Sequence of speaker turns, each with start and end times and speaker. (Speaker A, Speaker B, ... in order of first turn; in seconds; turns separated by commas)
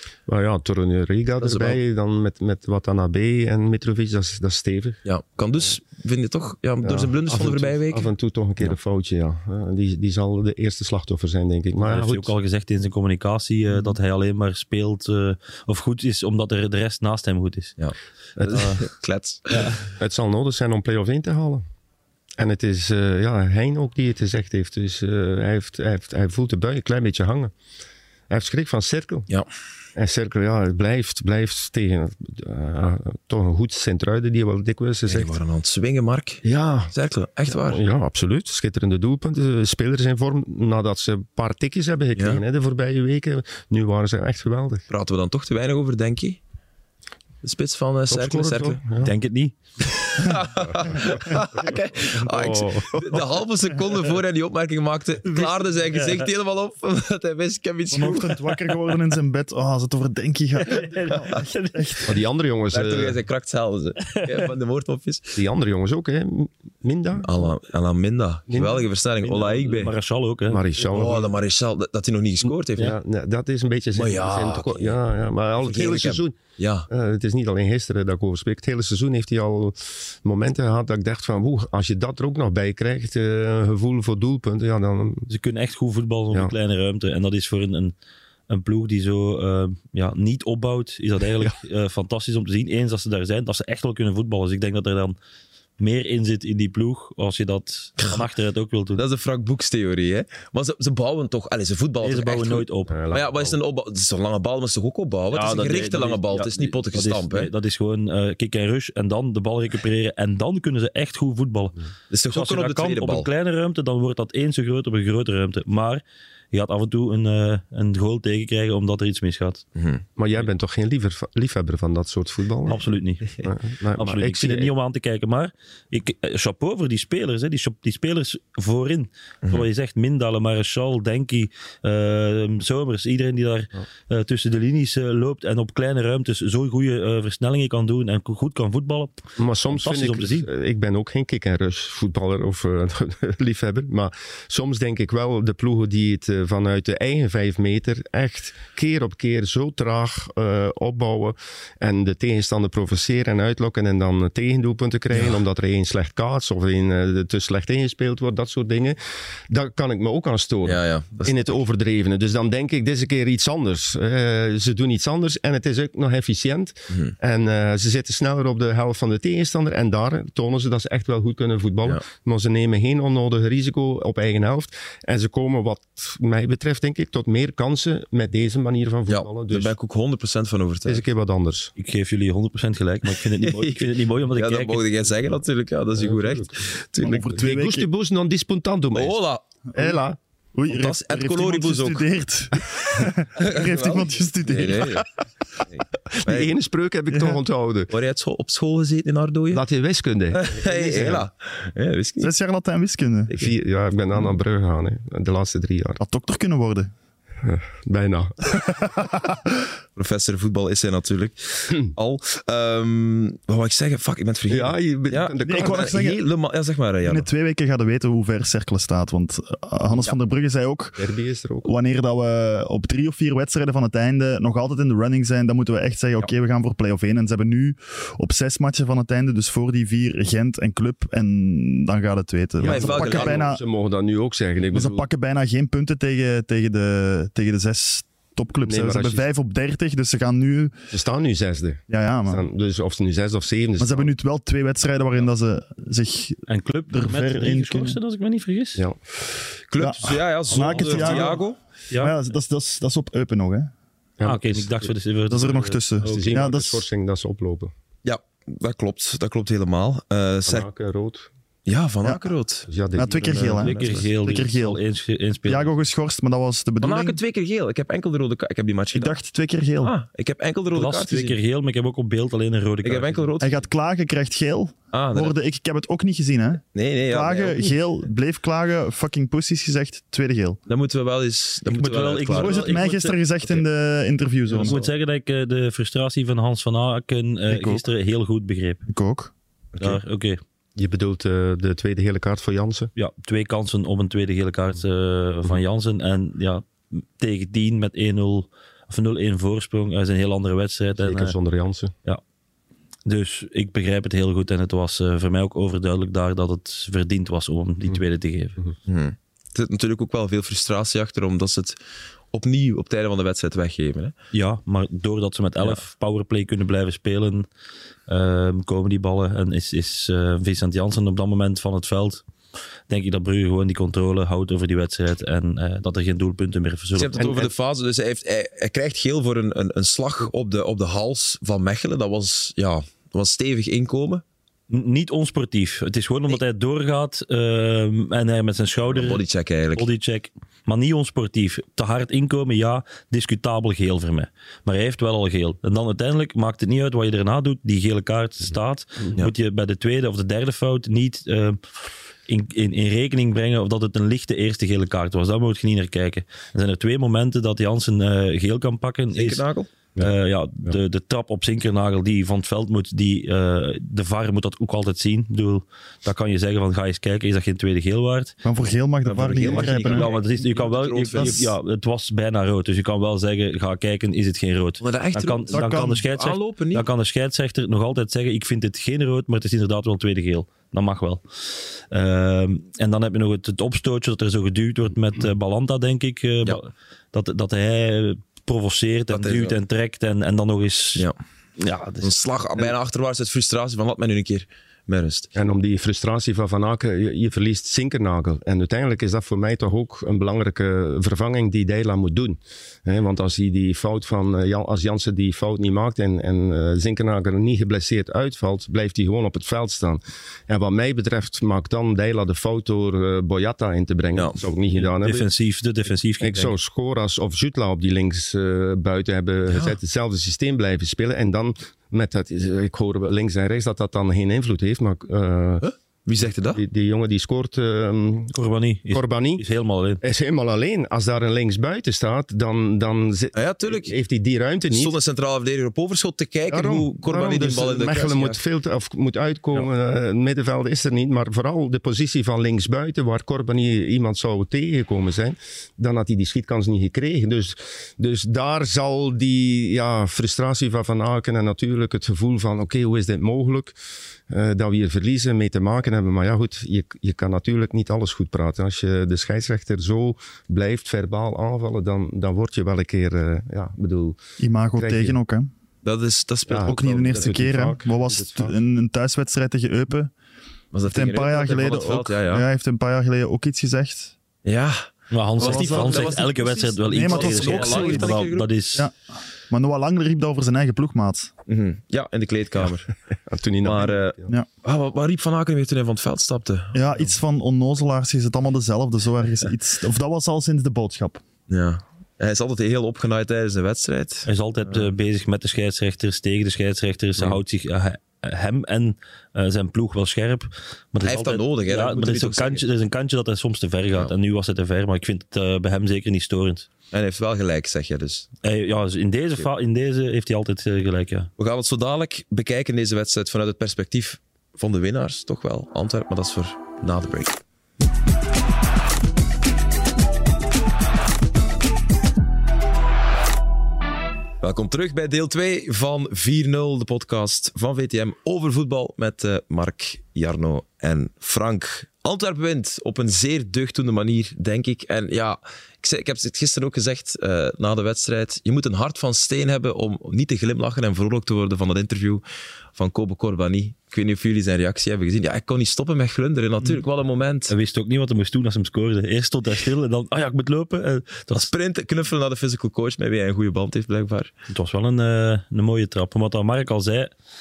Speaker A: 0.3-5.0, Speaker B: 1.4-1.8, Speaker B: 5.0-8.1, Speaker A: 6.8-12.3, Speaker C: 11.8-17.8, Speaker B: 17.8-19.7, Speaker A: 18.4-18.8, Speaker C: 19.5-19.8, Speaker A: 19.9-21.6, Speaker A: 22.4-27.5, Speaker A: 28.3-29.3, Speaker A: 30.0-35.4, Speaker B: 35.1-37.8, Speaker A: 36.4-36.9, Speaker A: 37.5-44.9, Speaker B: 42.2-42.4, Speaker B: 44.9-46.4, Speaker B: 47.4-48.8, Speaker A: 48.1-49.1, Speaker C: 49.0-49.5, Speaker B: 49.9-58.6, Speaker A: 50.8-53.2, Speaker C: 55.3-56.3, Speaker D: 57.9-62.2, Speaker C: 60.6-62.0, Speaker A: 62.0-63.2, Speaker B: 62.7-65.4, Speaker C: 64.0-64.5, Speaker A: 65.3-67.5, Speaker B: 67.2-70.0, Speaker A: 68.5-68.9, Speaker C: 69.2-70.6, Speaker A: 70.5-71.3, Speaker B: 70.8-73.0, Speaker A: 72.8-85.3, Speaker B: 74.0-75.0, Speaker B: 75.6-76.9, Speaker C: 85.3-87.9, Speaker C: 88.5-95.2, Speaker C: 95.8-99.0, Speaker B: 99.0-107.5, Speaker C: 102.0-103.0, Speaker A: 102.9-103.6, Speaker C: 105.3-111.8, Speaker B: 112.1-113.3, Speaker C: 112.3-119.6, Speaker B: 119.8-120.0, Speaker A: 120.2-122.8, Speaker C: 122.7-123.4, Speaker A: 123.4-124.7, Speaker C: 124.0-140.5, Speaker A: 139.4-159.0, Speaker A: 159.5-179.8, Speaker B: 160.7-161.6, Speaker B: 179.1-181.0, Speaker A: 180.9-181.7, Speaker C: 181.8-184.8, Speaker B: 183.4-187.4, Speaker A: 186.0-189.2, Speaker D: 187.0-187.9, Speaker B: 188.9-189.4, Speaker D: 189.7-190.0, Speaker A: 189.8-190.2, Speaker D: 190.6-195.1, Speaker B: 190.7-192.1, Speaker B: 193.0-195.1, Speaker B: 195.6-196.5, Speaker A: 196.1-197.9, Speaker D: 197.1-197.4, Speaker B: 197.9-199.6, Speaker A: 199.5-201.3, Speaker B: 200.3-202.3, Speaker D: 202.2-203.3, Speaker A: 203.3-206.0, Speaker D: 206.0-206.9, Speaker A: 207.4-208.9, Speaker D: 208.7-209.3, Speaker B: 210.0-217.3, Speaker A: 214.5-216.1, Speaker D: 215.4-216.2, Speaker D: 217.1-221.0, Speaker A: 221.0-221.7, Speaker D: 221.6-233.6, Speaker A: 232.6-235.1, Speaker B: 232.6-233.5, Speaker D: 234.7-240.8, Speaker A: 238.7-239.3, Speaker A: 240.9-244.1, Speaker D: 241.9-242.4, Speaker D: 243.8-248.0, Speaker C: 246.5-248.8, Speaker B: 249.7-251.6, Speaker D: 249.8-251.4, Speaker C: 250.5-251.4, Speaker C: 251.9-252.2, Speaker D: 252.0-253.7, Speaker A: 254.2-254.7, Speaker C: 254.2-256.3, Speaker D: 255.3-256.9, Speaker A: 256.0-257.7, Speaker B: 258.0-260.7, Speaker A: 260.5-261.3, Speaker B: 261.7-262.7, Speaker A: 262.7-264.0, Speaker D: 262.9-264.8, Speaker C: 263.4-265.7, Speaker D: 265.5-267.2, Speaker B: 266.8-269.2, Speaker D: 268.9-269.9, Speaker B: 269.8-271.4, Speaker C: 270.7-273.3, Speaker B: 272.8-273.6, Speaker D: 273.4-280.6, Speaker B: 274.9-275.4, Speaker B: 276.8-277.8, Speaker B: 280.7-282.8, Speaker C: 281.7-283.2, Speaker D: 282.3-284.8, Speaker C: 284.5-288.8, Speaker B: 284.6-284.9, Speaker D: 287.5-287.8, Speaker D: 288.9-289.3, Speaker B: 289.7-290.0, Speaker C: 289.8-290.4, Speaker A: 290.8-292.9, Speaker C: 293.0-301.4, Speaker A: 301.0-301.9, Speaker C: 303.1-308.6, Speaker B: 308.9-311.8, Speaker B: 312.3-314.1, Speaker C: 314.3-317.5, Speaker C: 318.1-322.2, Speaker C: 322.9-327.2, Speaker B: 327.0-334.2, Speaker A: 327.2-327.5, Speaker C: 334.7-339.2, Speaker B: 338.9-339.9, Speaker C: 339.8-351.6, Speaker C: 352.3-359.4, Speaker B: 359.1-359.7, Speaker C: 360.0-368.4, Speaker D: 368.4-370.1, Speaker B: 369.0-371.5, Speaker C: 369.8-392.1, Speaker D: 371.1-371.5, Speaker B: 374.8-376.9, Speaker D: 375.5-376.0, Speaker B: 389.1-389.6, Speaker B: 392.0-395.3, Speaker A: 395.4-415.3, Speaker B: 414.1-414.4, Speaker C: 414.8-416.6, Speaker A: 416.2-425.6, Speaker B: 419.5-419.8, Speaker B: 425.6-426.6, Speaker A: 426.5-428.4, Speaker C: 428.3-430.0, Speaker A: 428.9-429.4, Speaker A: 430.0-435.0, Speaker B: 433.4-433.9, Speaker B: 434.7-438.4, Speaker A: 436.5-453.8, Speaker A: 454.3-464.2, Speaker D: 464.4-465.5, Speaker A: 464.7-465.2, Speaker B: 465.8-467.4, Speaker A: 466.5-468.6, Speaker D: 466.6-470.1, Speaker B: 470.7-472.5, Speaker D: 470.9-474.1, Speaker B: 474.4-478.5, Speaker C: 475.1-478.9, Speaker D: 475.4-476.2, Speaker D: 476.9-481.3, Speaker B: 481.5-482.9, Speaker A: 483.1-484.3, Speaker B: 483.6-487.1, Speaker D: 486.7-491.2, Speaker B: 491.5-494.9, Speaker C: 494.3-506.7, Speaker B: 501.0-502.6, Speaker B: 506.9-508.3, Speaker C: 508.4-511.3, Speaker B: 511.4-517.4, Speaker B: 524.4-542.2, Speaker B: 542.8-547.5, Speaker C: 547.5-551.5, Speaker B: 551.5-554.3, Speaker C: 554.5-557.1